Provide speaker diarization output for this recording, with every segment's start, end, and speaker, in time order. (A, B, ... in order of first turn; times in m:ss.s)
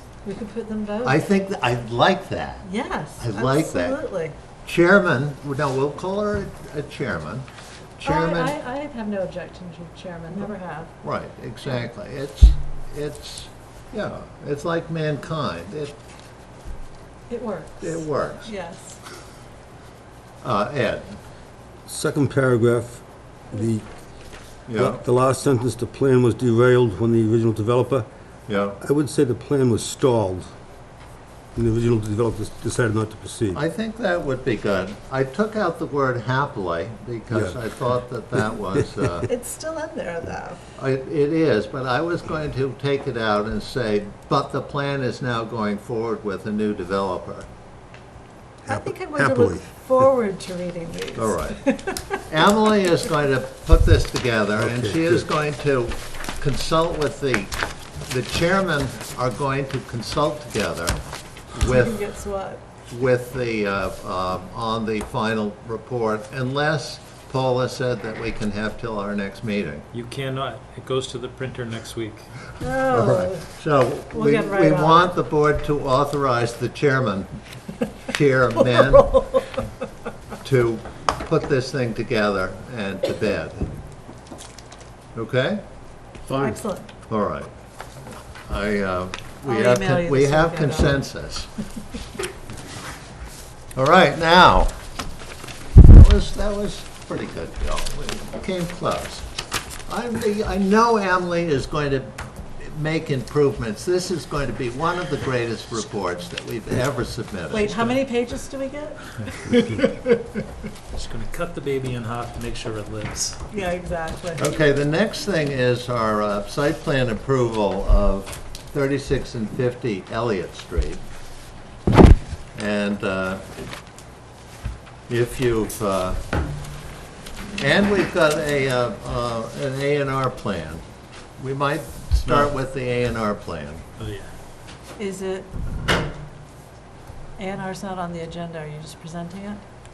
0:00.2-0:01.2 A
0:01.0-0:04.0 B
0:02.6-0:04.4 A
0:04.6-0:07.4 B
0:08.0-0:08.5 B
0:08.0-0:10.9 A
0:11.0-0:15.9 B
0:17.3-0:19.0 A
0:17.8-0:18.5 B
0:20.4-0:21.2 B
0:21.9-0:23.8 C
0:24.7-0:25.0 B
0:24.8-0:28.1 C
0:28.5-0:28.8 B
0:28.8-0:30.5 C
0:31.5-0:33.6 C
0:33.5-0:39.3 B
0:39.2-0:40.6 A
0:40.8-0:47.5 B
0:48.6-0:49.7 C
0:48.7-0:52.2 A
0:51.2-0:51.6 B
0:52.3-1:01.0 B
0:54.6-0:55.2 C
1:01.5-1:02.0 B
1:01.6-1:02.6 A
1:02.9-1:09.8 B
1:09.9-1:12.3 D
1:12.6-1:13.5 A
1:12.9-1:17.3 B
1:14.1-1:15.1 A
1:18.1-1:19.1 B
1:18.5-1:19.7 A
1:20.4-1:23.7 B
1:25.1-1:25.6 B
1:26.4-1:26.9 A
1:27.1-1:27.5 B
1:28.5-1:31.5 B
1:29.4-1:31.0 A
1:33.8-1:34.7 B
1:35.8-1:39.2 B
1:39.9-1:47.7 B
1:47.5-1:49.8 A
1:47.6-1:48.0 D
1:50.9-1:53.4 D
1:53.5-1:54.4 A
1:54.4-2:01.0 B
2:02.5-2:03.4 B
2:05.1-2:06.2 B
2:07.6-2:10.8 B
2:11.4-2:13.8 B
2:14.0-2:14.3 D
2:15.0-2:15.5 A
2:17.4-2:19.6 A